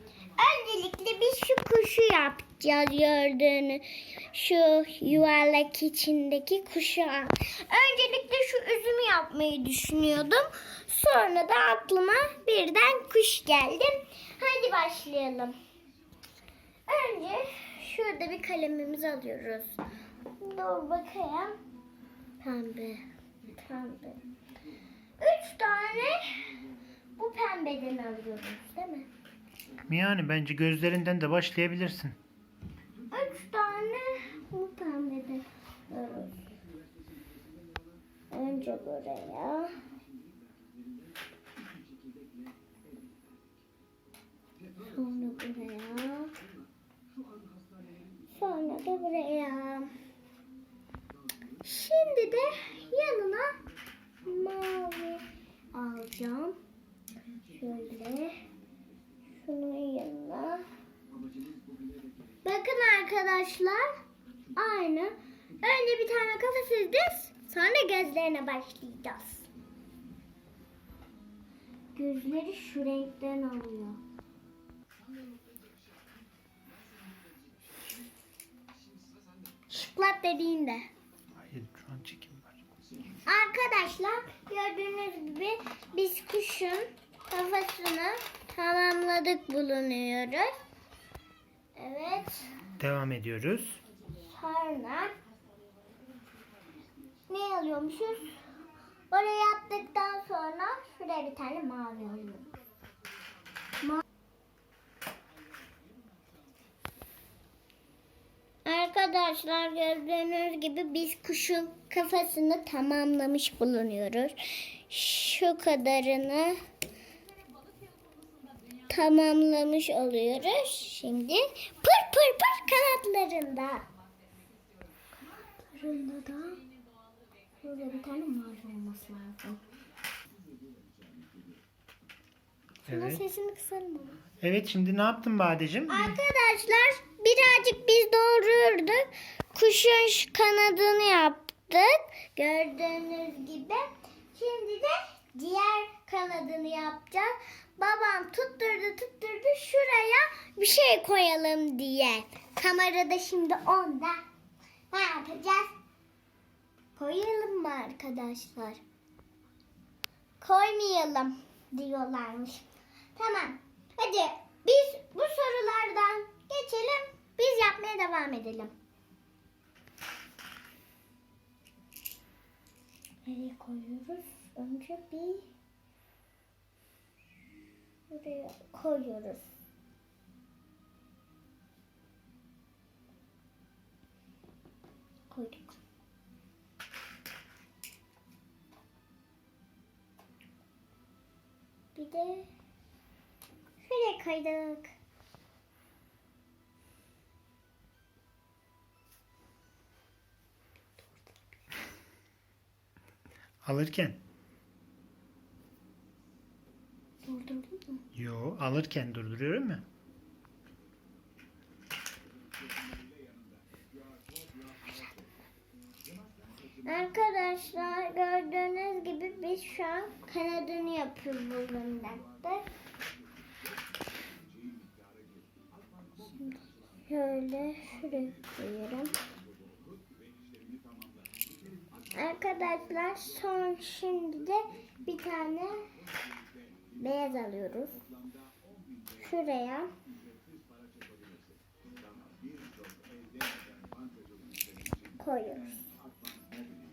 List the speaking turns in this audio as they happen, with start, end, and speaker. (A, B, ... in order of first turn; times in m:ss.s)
0:00.4-0:15.6 A
0:16.9-0:19.8 A
0:20.4-0:21.6 A
0:22.4-0:23.0 A
0:23.6-0:24.2 A
0:25.2-0:26.5 A
0:27.2-0:29.1 A
0:29.9-0:32.2 B
0:33.1-0:36.4 A
0:38.3-0:39.7 A
0:44.9-0:46.3 A
0:48.3-0:49.9 A
0:51.6-0:53.5 A
0:54.2-0:56.6 A
0:57.5-0:58.4 A
0:59.4-1:00.6 A
1:02.4-1:03.9 A
1:04.6-1:09.4 A
1:12.0-1:14.0 A
1:19.7-1:20.9 A
1:21.4-1:22.6 B
1:23.2-1:30.5 A
1:31.8-1:32.5 A
1:32.8-1:33.8 B
1:34.2-1:35.1 A
1:37.3-1:38.4 A
1:39.1-1:42.5 A
1:48.6-1:56.6 A
1:58.9-2:03.9 A
2:05.7-2:06.6 A
2:07.6-2:09.6 A
2:12.9-2:14.2 A
2:12.9-2:13.2 B
2:14.4-2:16.2 B
2:15.9-2:34.2 A
2:34.9-2:35.8 A
2:37.0-2:38.8 A
2:40.4-2:42.6 A
2:43.2-2:48.7 A
2:53.3-2:55.5 A
2:58.1-2:59.4 A
3:05.3-3:05.8 A
3:12.0-3:12.5 A
3:13.8-3:14.9 A
3:23.6-3:24.2 B
3:27.2-3:28.0 A
3:28.2-3:29.8 B
3:36.8-3:42.7 A
3:47.1-3:49.1 A
3:52.1-3:55.8 A
3:57.0-3:58.0 A
3:59.2-3:59.9 A
4:05.2-4:05.8 A